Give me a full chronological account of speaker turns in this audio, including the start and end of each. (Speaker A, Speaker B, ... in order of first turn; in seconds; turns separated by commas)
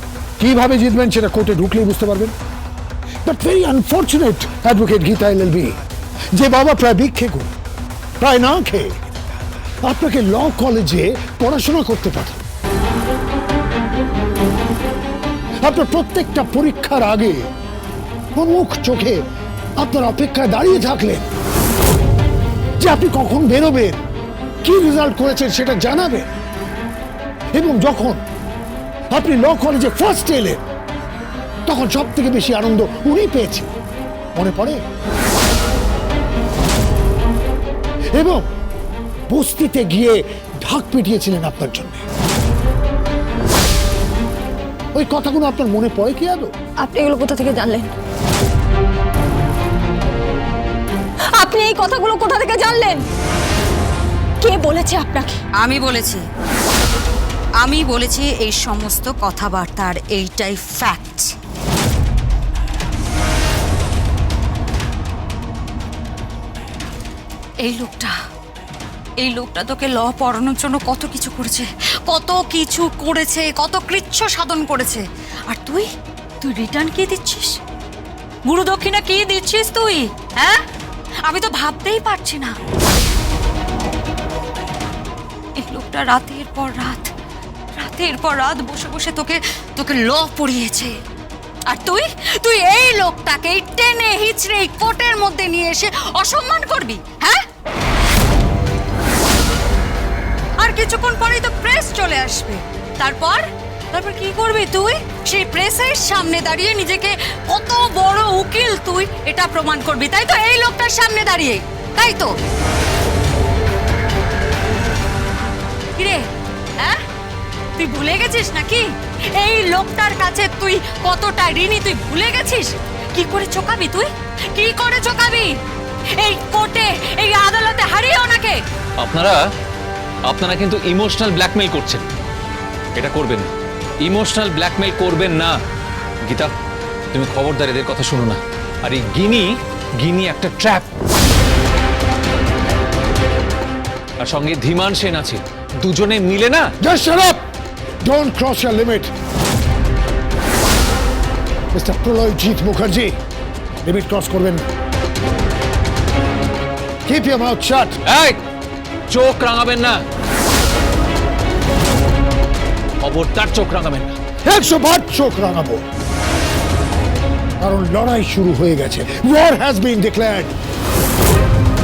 Speaker A: 0.4-2.3, Speaker A: 3.2-5.8, Speaker A: 6.3-7.5, Speaker A: 8.2-9.1, Speaker A: 9.8-12.4, Speaker A: 15.6-17.5, Speaker A: 18.3-19.2, Speaker A: 19.8-21.3, Speaker A: 22.8-24.0, Speaker A: 24.6-26.3, Speaker A: 27.5-28.2, Speaker A: 29.1-30.6, Speaker A: 31.6-33.7, Speaker A: 34.4-34.8, Speaker A: 38.1-38.5, Speaker A: 39.3-42.0, Speaker A: 44.9-46.5, Speaker B: 46.8-47.9, Speaker B: 51.3-53.0, Speaker B: 54.4-55.4, Speaker C: 55.6-56.2, Speaker C: 57.6-61.3, Speaker C: 67.6-68.2, Speaker C: 69.2-75.9, Speaker C: 76.4-77.6, Speaker C: 78.5-80.6, Speaker C: 81.3-82.5, Speaker C: 85.6-87.1, Speaker C: 87.8-90.9, Speaker C: 91.7-97.4, Speaker C: 100.6-103.4, Speaker C: 103.9-112.3, Speaker C: 116.0-116.2, Speaker C: 117.8-118.9, Speaker C: 119.4-125.5, Speaker C: 126.2-128.6, Speaker D: 129.0-129.3, Speaker D: 130.3-132.0, Speaker D: 133.0-133.5, Speaker D: 134.0-135.5, Speaker D: 137.1-139.4, Speaker D: 140.0-140.8, Speaker D: 144.2-146.6, Speaker A: 146.8-147.4, Speaker A: 148.0-149.1, Speaker A: 151.7-153.1, Speaker A: 153.8-154.6, Speaker A: 157.1-158.0, Speaker D: 159.1-160.0, Speaker D: 163.1-164.1, Speaker A: 164.4-165.8, Speaker A: 167.6-170.5